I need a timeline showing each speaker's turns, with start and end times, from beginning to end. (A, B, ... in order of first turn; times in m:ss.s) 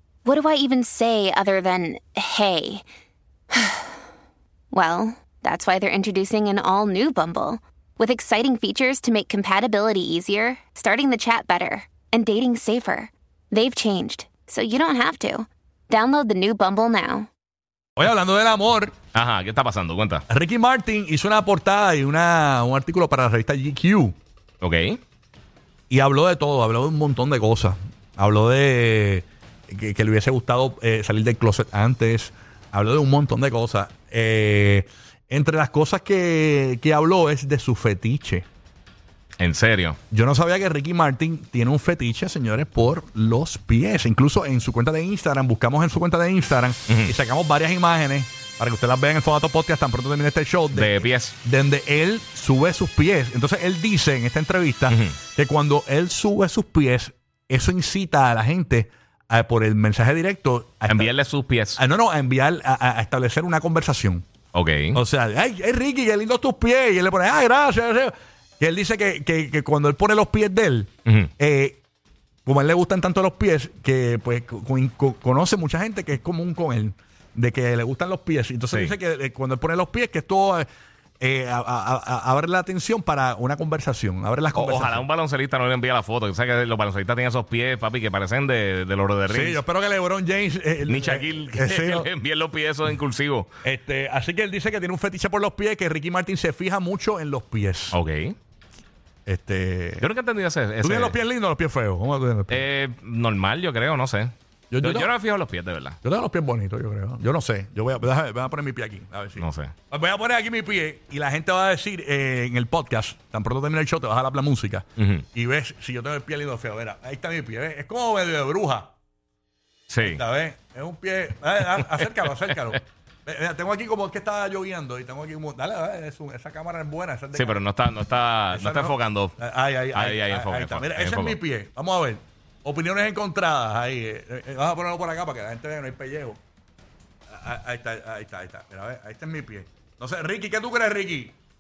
0:00.2-0:02.8 A
0:03.5-0:03.9 A
0:04.7-0:17.3 A
0:18.0-0:19.0 B
0:19.2-0:20.2 C
0:20.3-0:24.2 B
0:24.6-0:25.0 C
0:25.9-0:38.5 B
0:39.4-0:40.0 C
0:40.1-1:01.1 B
0:50.7-0:51.4 C
0:54.9-0:55.2 C
1:00.9-1:01.8 C
1:01.8-1:04.3 B
1:04.5-1:05.0 C
1:04.9-1:11.8 B
1:12.5-1:20.7 B
1:21.2-1:25.0 B
1:24.6-1:29.6 C
1:29.3-1:32.1 B
1:30.9-1:33.5 C
1:33.6-1:38.0 B
1:37.9-1:38.4 C
1:39.3-1:40.0 B
1:40.0-1:41.2 C
1:40.8-1:42.6 B
1:42.5-1:46.0 C
1:44.7-1:45.1 B
1:46.0-1:58.9 B
1:49.4-1:49.7 C
1:55.0-1:55.2 C
1:59.9-2:00.2 C
2:00.0-2:07.6 B
2:01.7-2:02.1 C
2:07.3-2:09.4 C
2:08.5-2:16.4 B
2:09.9-2:11.4 C
2:17.3-2:21.4 B